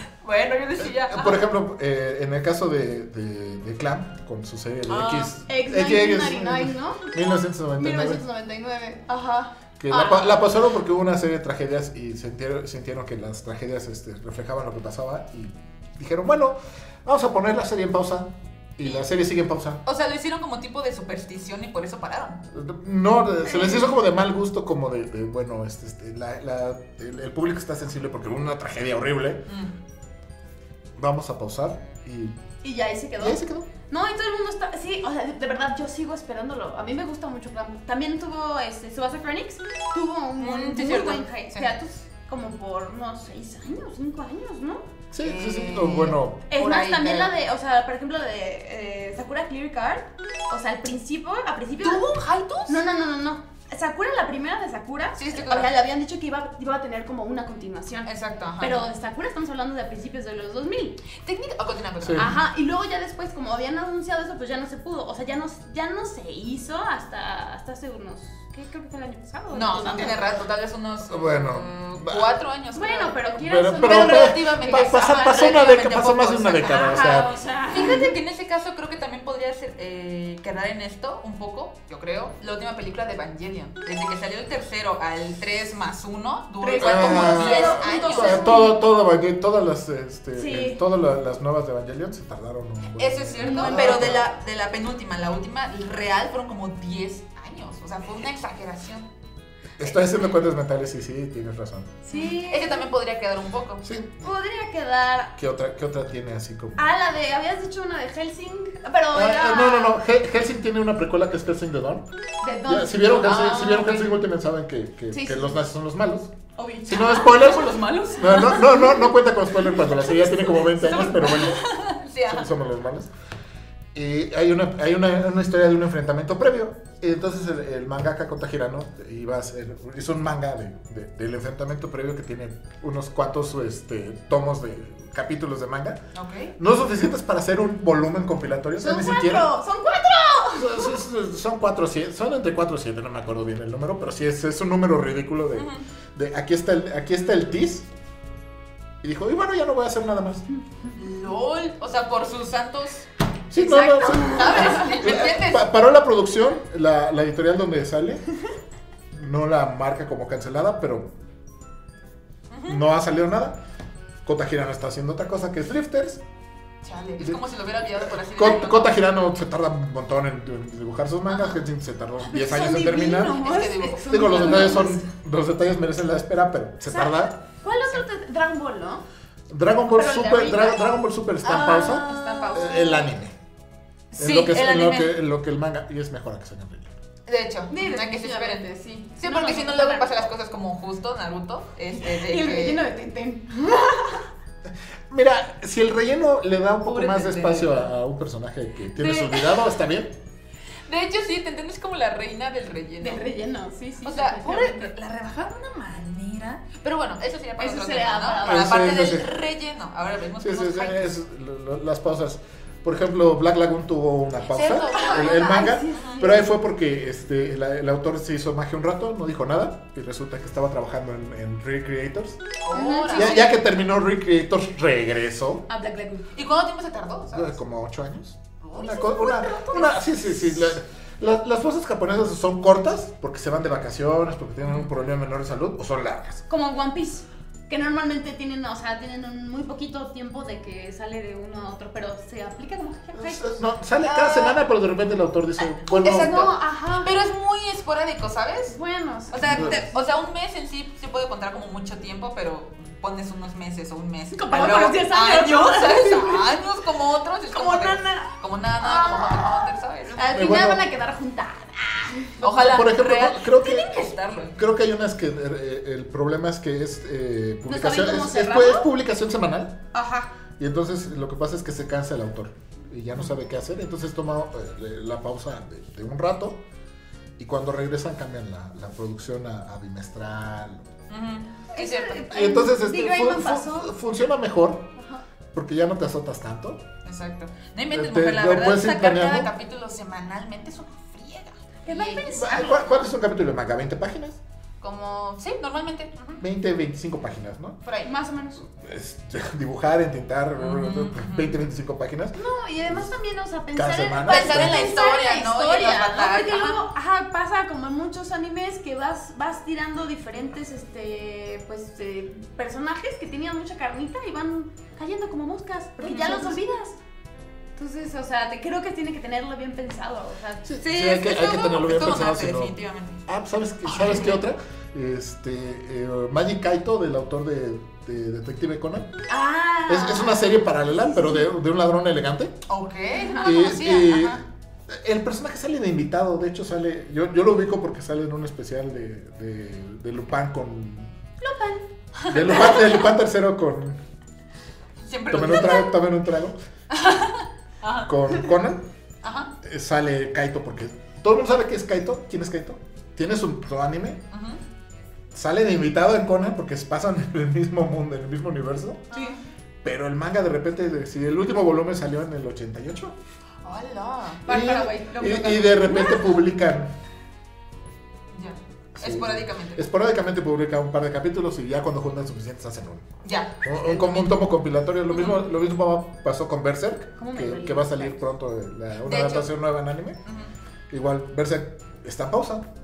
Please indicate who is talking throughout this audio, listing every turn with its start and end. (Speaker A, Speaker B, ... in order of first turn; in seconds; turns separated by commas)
Speaker A: 0.2-1.4, Speaker B: 0.8-8.2, Speaker A: 4.9-5.3, Speaker C: 5.5-10.4, Speaker B: 9.8-19.8, Speaker A: 19.8-22.4, Speaker B: 22.5-29.5, Speaker C: 23.4-23.9, Speaker A: 29.5-29.7, Speaker B: 31.0-32.4, Speaker C: 32.6-44.9, Speaker B: 33.2-33.7, Speaker A: 40.4-41.7, Speaker B: 45.1-46.5, Speaker A: 45.2-47.3, Speaker C: 46.5-52.1, Speaker A: 51.8-52.8, Speaker C: 52.7-61.0, Speaker A: 55.1-55.7, Speaker A: 58.0-58.8, Speaker A: 61.2-62.4, Speaker B: 62.0-62.4, Speaker C: 62.1-70.2, Speaker A: 69.5-73.2, Speaker B: 71.0-72.3, Speaker C: 72.7-75.6, Speaker B: 73.4-77.3, Speaker A: 73.8-88.6, Speaker C: 76.6-78.2, Speaker C: 86.6-88.8, Speaker B: 86.8-94.3, Speaker C: 90.3-90.8, Speaker A: 93.0-99.1, Speaker C: 93.4-94.2, Speaker B: 99.8-102.0, Speaker C: 102.0-102.9, Speaker A: 102.1-103.8, Speaker B: 103.8-104.3, Speaker C: 104.2-105.3, Speaker B: 105.3-106.9, Speaker C: 106.8-110.0, Speaker B: 109.1-112.0, Speaker C: 112.4-114.1, Speaker B: 112.6-116.3, Speaker A: 113.2-114.1, Speaker C: 115.1-115.6, Speaker C: 116.5-117.7, Speaker B: 116.8-121.7, Speaker A: 117.2-118.8, Speaker C: 118.2-121.5, Speaker A: 121.2-122.5, Speaker B: 122.3-123.1, Speaker B: 123.9-136.0, Speaker A: 136.1-136.5, Speaker B: 136.6-139.5, Speaker C: 138.8-141.0, Speaker B: 140.5-147.9, Speaker A: 145.5-145.8, Speaker B: 149.0-150.4, Speaker A: 150.9-153.1, Speaker B: 153.5-158.2, Speaker C: 153.5-155.0, Speaker A: 154.0-155.6, Speaker B: 159.1-161.1, Speaker A: 162.5-162.8, Speaker B: 162.7-163.6, Speaker B: 164.2-166.2, Speaker A: 166.8-169.0, Speaker B: 168.2-173.4, Speaker A: 171.3-171.6, Speaker C: 172.2-175.1, Speaker A: 173.4-174.9, Speaker B: 174.1-177.3, Speaker C: 176.9-179.0, Speaker B: 179.5-183.3, Speaker C: 179.9-183.1, Speaker A: 181.4-182.7, Speaker A: 184.1-185.1, Speaker B: 184.2-186.9, Speaker A: 187.3-188.7, Speaker C: 187.7-190.3, Speaker A: 189.2-192.8, Speaker C: 192.0-194.3, Speaker B: 195.1-200.1, Speaker A: 196.8-197.9, Speaker A: 199.0-199.6, Speaker A: 200.8-203.2, Speaker C: 203.0-204.9, Speaker A: 204.0-211.1, Speaker C: 207.6-209.1, Speaker B: 208.4-209.3, Speaker B: 210.4-222.4, Speaker A: 214.4-216.3, Speaker C: 214.9-216.5, Speaker A: 222.6-223.4, Speaker C: 222.7-223.4, Speaker B: 223.1-225.7, Speaker C: 225.7-226.3, Speaker A: 226.3-227.6, Speaker B: 227.3-236.4, Speaker C: 228.7-230.1, Speaker C: 236.5-243.6, Speaker B: 243.1-246.5, Speaker A: 244.0-244.6, Speaker A: 246.0-248.8, Speaker C: 246.0-247.1, Speaker C: 248.7-249.8, Speaker A: 249.3-260.4, Speaker B: 249.5-249.8, Speaker C: 254.3-256.5, Speaker C: 257.5-262.4, Speaker B: 260.3-260.8, Speaker A: 262.4-264.6, Speaker B: 262.4-269.8, Speaker C: 267.6-268.9, Speaker C: 269.9-270.3, Speaker B: 270.6-276.6, Speaker B: 277.4-280.9, Speaker A: 281.1-282.3, Speaker C: 281.7-283.9, Speaker B: 282.3-284.9, Speaker C: 284.9-285.2, Speaker B: 285.5-286.8, Speaker A: 287.0-292.9, Speaker B: 287.9-289.5, Speaker C: 291.9-292.9, Speaker B: 292.3-294.4, Speaker A: 294.8-296.4, Speaker B: 296.4-297.8, Speaker A: 297.8-298.1, Speaker C: 298.0-298.6, Speaker B: 298.6-303.1, Speaker A: 300.6-301.5, Speaker C: 302.3-317.0, Speaker B: 303.7-304.9, Speaker A: 304.2-306.8, Speaker A: 316.0-316.6, Speaker C: 317.8-320.7, Speaker B: 320.6-322.7, Speaker A: 320.8-323.2, Speaker B: 323.2-329.1, Speaker A: 323.9-324.4, Speaker C: 329.3-331.4, Speaker B: 329.9-332.6, Speaker A: 332.7-334.4, Speaker C: 333.1-333.6, Speaker B: 333.4-341.1, Speaker C: 341.4-341.8, Speaker A: 342.1-342.6, Speaker B: 342.3-344.0, Speaker C: 342.5-343.0, Speaker A: 345.0-345.9, Speaker B: 345.3-346.6, Speaker A: 346.9-348.1, Speaker B: 348.1-348.8, Speaker A: 349.2-349.5, Speaker B: 349.6-354.2, Speaker A: 354.3-354.6, Speaker B: 355.3-359.1, Speaker A: 359.1-359.4, Speaker B: 359.8-363.1, Speaker A: 363.6-364.4, Speaker C: 364.4-366.4, Speaker B: 364.5-366.9, Speaker A: 368.3-369.8, Speaker B: 368.9-373.1, Speaker A: 373.2-374.3, Speaker B: 373.6-380.2, Speaker A: 375.1-375.4, Speaker C: 377.2-378.2, Speaker A: 379.0-379.5, Speaker A: 380.2-380.5, Speaker B: 380.9-382.7